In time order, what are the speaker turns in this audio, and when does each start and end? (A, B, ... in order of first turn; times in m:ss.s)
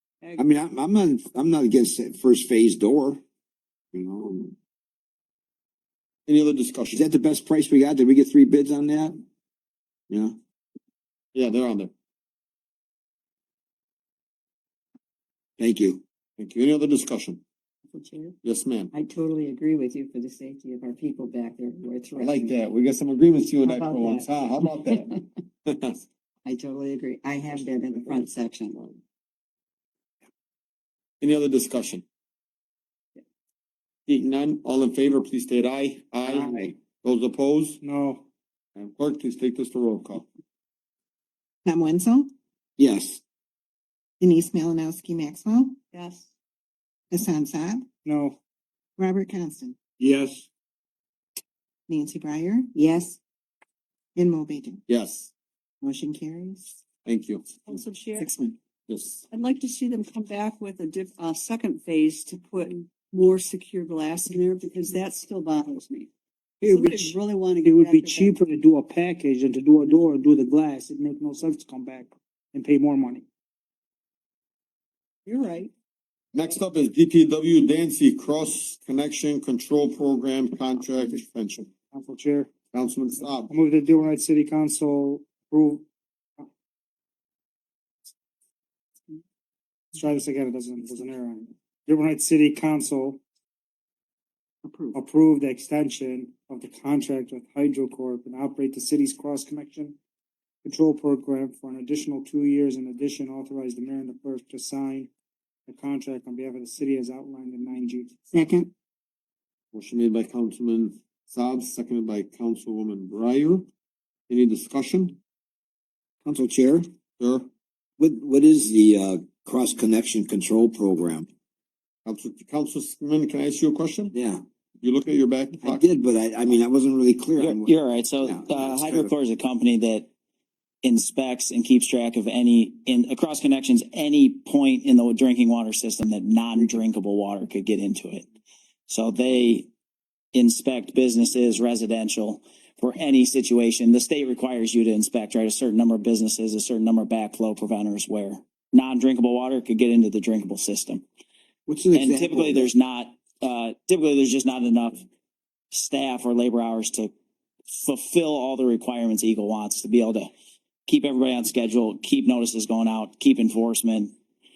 0:00.4-0:03.2 A
0:03.9-0:04.5 A
0:06.3-0:07.0 B
0:06.9-0:09.2 A
0:10.1-0:10.3 A
0:11.3-0:11.9 B
0:15.6-0:16.0 A
0:16.4-0:17.4 B
0:17.9-0:18.3 C
0:18.4-0:18.9 B
0:18.9-0:22.5 C
0:22.2-0:25.0 B
0:23.6-0:25.2 C
0:26.4-0:28.8 C
0:31.2-0:32.0 B
0:34.1-0:37.8 B
0:37.8-0:38.2 D
0:38.7-0:40.2 B
0:41.7-0:42.3 E
0:42.8-0:43.2 A
0:44.2-0:45.7 E
0:45.9-0:46.3 F
0:47.1-0:47.8 E
0:48.0-0:48.4 D
0:49.0-0:49.7 E
0:50.0-0:50.4 D
0:51.9-0:53.1 E
0:54.2-0:54.6 E
0:54.9-0:55.3 B
0:55.8-0:56.6 E
0:57.0-0:57.6 B
0:57.6-0:58.3 F
0:58.2-0:58.5 E
0:58.9-0:59.2 B
0:59.3-1:06.1 F
1:06.7-1:08.4 F
1:07.6-1:13.2 D
1:15.2-1:15.7 F
1:16.3-1:21.7 B
1:21.9-1:22.5 D
1:22.7-1:23.5 B
1:23.5-1:25.8 D
1:30.0-1:33.2 D
1:34.7-1:34.9 C
1:34.9-1:40.0 D
1:40.6-1:45.1 D
1:45.7-1:48.2 D
1:49.7-1:53.6 B
1:54.3-1:55.2 B
1:56.2-1:56.9 A
1:57.2-1:57.5 B
1:58.0-2:01.3 A
2:02.0-2:04.1 B
2:04.1-2:04.4 A
2:04.8-2:05.9 B
2:05.6-2:09.1 A
2:07.4-2:10.1 G
2:10.8-2:18.2 G
2:18.9-2:19.7 G
2:20.3-2:31.0 G
2:31.7-2:32.7 A
2:31.9-2:35.0 G
2:35.7-2:37.1 G
2:37.7-2:40.3 G
2:40.8-2:44.1 G